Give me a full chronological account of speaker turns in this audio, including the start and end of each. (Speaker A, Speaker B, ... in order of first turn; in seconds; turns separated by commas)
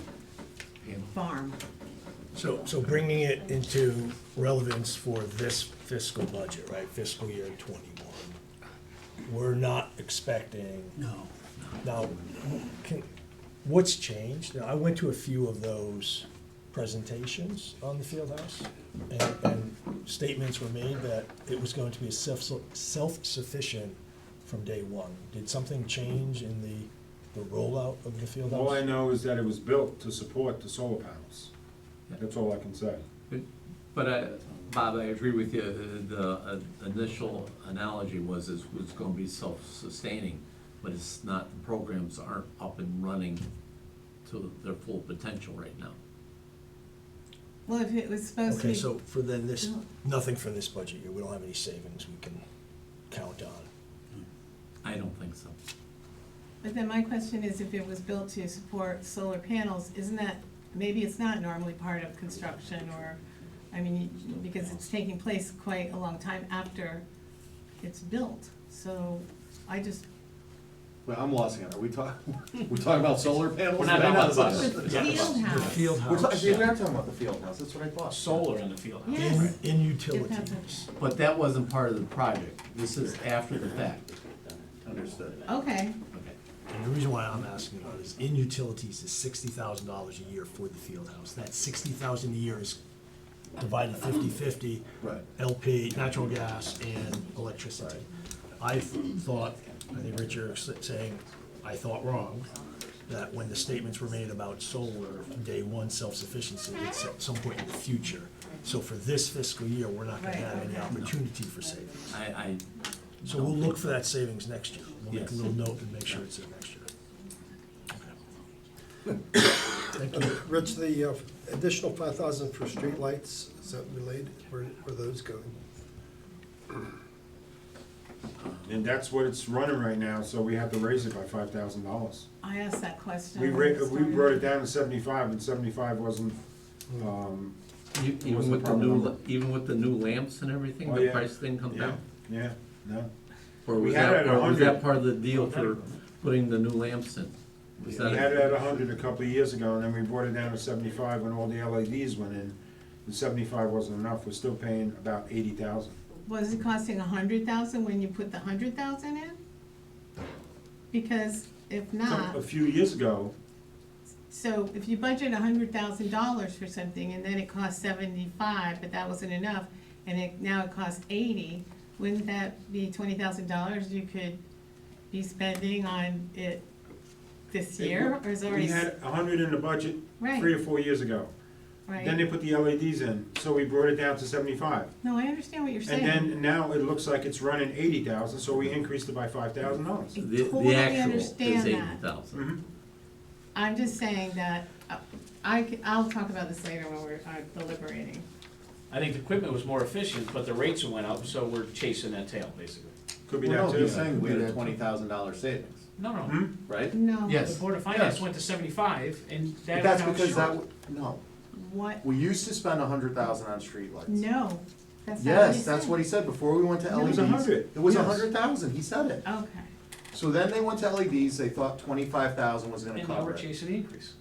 Speaker A: 0.8-1.1, Speaker B: 1.1-1.6, Speaker C: 2.3-8.3, Speaker C: 9.2-11.0, Speaker C: 11.8-13.1, Speaker C: 13.6-28.8, Speaker D: 28.4-31.5, Speaker D: 32.2-33.0, Speaker A: 33.3-43.4, Speaker A: 44.2-46.0, Speaker B: 47.6-48.9, Speaker C: 48.5-52.4, Speaker C: 53.1-53.7, Speaker A: 54.8-55.5, Speaker B: 56.6-63.2, Speaker B: 63.7-67.0, Speaker B: 67.8-70.0, Speaker E: 71.0-75.5, Speaker F: 73.7-75.7, Speaker A: 73.9-75.2, Speaker B: 74.4-76.0, Speaker C: 75.3-76.6, Speaker E: 76.0-78.5, Speaker A: 76.2-76.7, Speaker F: 78.1-79.5, Speaker B: 79.0-80.9, Speaker C: 79.1-80.9, Speaker A: 81.0-84.0, Speaker E: 84.7-85.6, Speaker B: 85.5-86.0, Speaker A: 86.1-86.4, Speaker C: 86.7-92.8, Speaker C: 93.5-102.5, Speaker E: 95.0-95.2, Speaker C: 103.1-112.0, Speaker B: 110.2-111.0, Speaker A: 112.1-112.7, Speaker A: 113.2-114.0, Speaker C: 113.2-116.9, Speaker D: 115.1-115.4, Speaker C: 119.9-120.4, Speaker G: 120.1-125.5, Speaker D: 128.6-132.2, Speaker B: 132.4-134.5, Speaker D: 133.3-136.4, Speaker D: 136.9-137.5, Speaker A: 137.9-142.0, Speaker D: 138.2-139.1, Speaker D: 140.8-143.1, Speaker A: 143.6-148.5, Speaker D: 143.7-144.8, Speaker F: 145.3-145.9, Speaker D: 147.8-156.0, Speaker B: 156.2-159.4, Speaker B: 160.9-162.4, Speaker D: 162.0-163.3, Speaker B: 164.3-174.4, Speaker B: 175.1-176.7, Speaker B: 177.5-178.9, Speaker D: 177.8-181.3, Speaker B: 180.2-180.5, Speaker B: 181.9-182.2, Speaker D: 181.9-184.9, Speaker B: 185.0-186.3, Speaker D: 185.8-190.2, Speaker A: 190.2-192.5, Speaker B: 190.2-192.0, Speaker D: 192.3-192.6, Speaker B: 193.5-198.2, Speaker F: 198.9-202.9, Speaker D: 203.3-204.3, Speaker E: 203.4-205.8, Speaker A: 203.8-204.5, Speaker F: 205.9-206.5, Speaker D: 206.2-206.6, Speaker E: 206.7-206.9, Speaker B: 206.9-207.6, Speaker A: 207.3-207.5, Speaker F: 207.4-210.6, Speaker E: 207.8-208.2, Speaker E: 209.7-211.2, Speaker B: 211.5-212.0, Speaker E: 212.0-214.2, Speaker B: 214.1-216.0, Speaker E: 215.2-219.2, Speaker D: 216.9-218.3, Speaker B: 219.2-219.7, Speaker E: 220.1-223.5, Speaker F: 222.9-224.1